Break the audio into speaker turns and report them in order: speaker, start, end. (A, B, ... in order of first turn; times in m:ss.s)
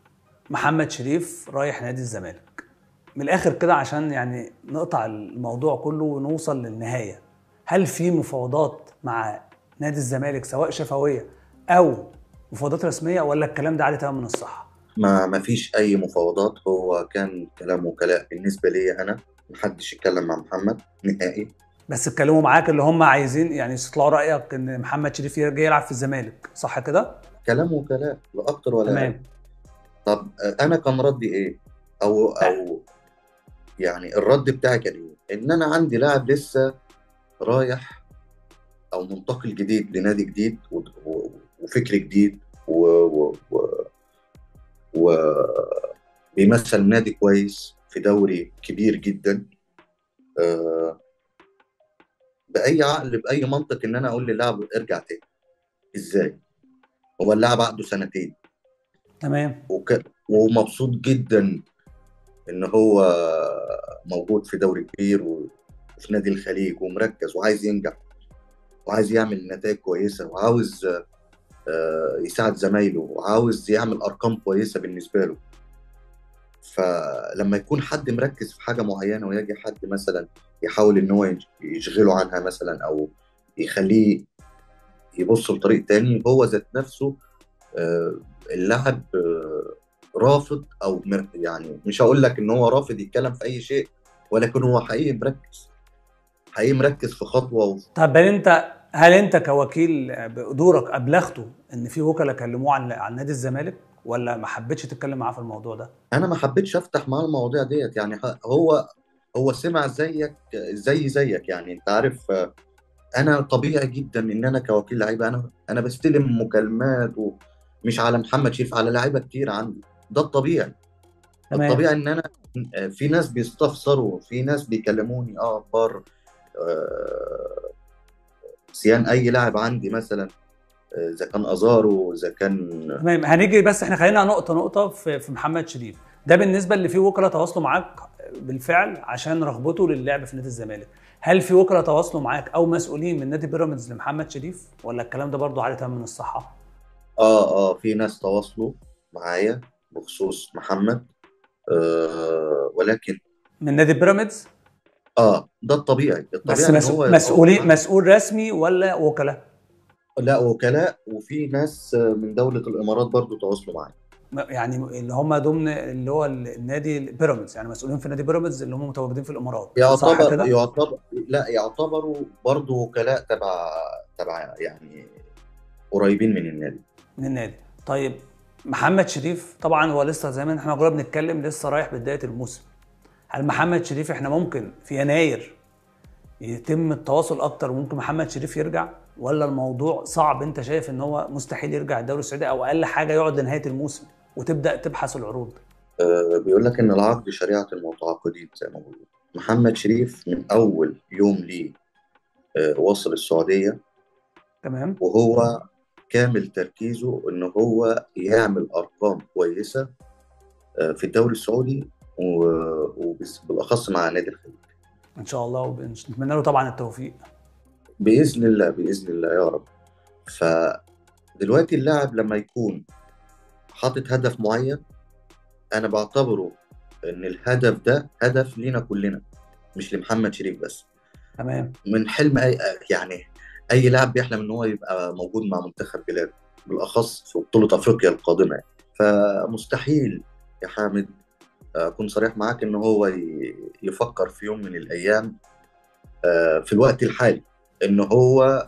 0:00.5-0:02.6 A
0:03.2-0:14.7 A
0:15.0-0:21.5 B
0:21.9-0:27.2 A
0:27.5-0:29.1 B
0:28.9-0:29.2 A
0:30.1-0:32.8 B
0:33.8-0:36.6 B
0:37.4-0:38.0 B
0:38.9-0:43.8 B
0:45.0-0:49.4 B
0:50.4-0:51.0 B
0:52.5-0:55.2 B
0:56.0-0:56.3 B
0:57.2-0:58.3 B
0:59.2-0:59.6 A
0:59.7-1:01.6 B
1:02.5-1:08.0 B
1:08.9-1:10.9 B
1:11.7-1:15.4 B
1:16.6-1:23.1 B
1:23.6-1:24.2 B
1:25.2-1:27.2 B
1:27.8-1:35.7 B
1:36.6-1:37.8 B
1:38.0-1:45.9 A
1:46.1-1:48.8 B
1:49.4-1:52.3 B
1:53.2-2:00.8 B
2:01.5-2:01.8 A
2:01.5-2:02.2 B
2:02.8-2:06.0 B
2:06.6-2:07.7 B
2:08.7-2:10.3 B
2:11.0-2:12.7 B
2:13.0-2:26.6 A
2:27.2-2:31.1 B
2:31.7-2:33.2 B
2:33.6-2:34.5 A
2:35.2-2:37.8 B
2:36.5-2:39.4 A
2:40.2-2:43.9 B
2:44.3-2:50.5 A
2:49.8-2:55.2 B
2:55.9-2:56.8 B
2:57.2-3:02.7 A
3:03.3-3:05.6 A
3:06.4-3:15.6 A
3:16.0-3:21.8 B
3:22.6-3:23.8 B
3:24.6-3:25.0 A
3:25.0-3:25.6 B
3:26.1-3:29.9 B
3:30.8-3:34.6 B
3:35.2-3:37.2 A
3:38.0-3:39.7 B
3:40.3-3:40.8 B
3:41.4-3:42.8 B
3:43.8-3:44.8 B
3:45.8-3:46.6 B
3:47.1-3:49.2 B
3:49.8-3:50.9 B
3:51.4-3:51.7 A
3:51.9-3:53.2 B
3:53.7-4:01.1 B
4:01.8-4:05.3 B
4:06.3-4:08.5 B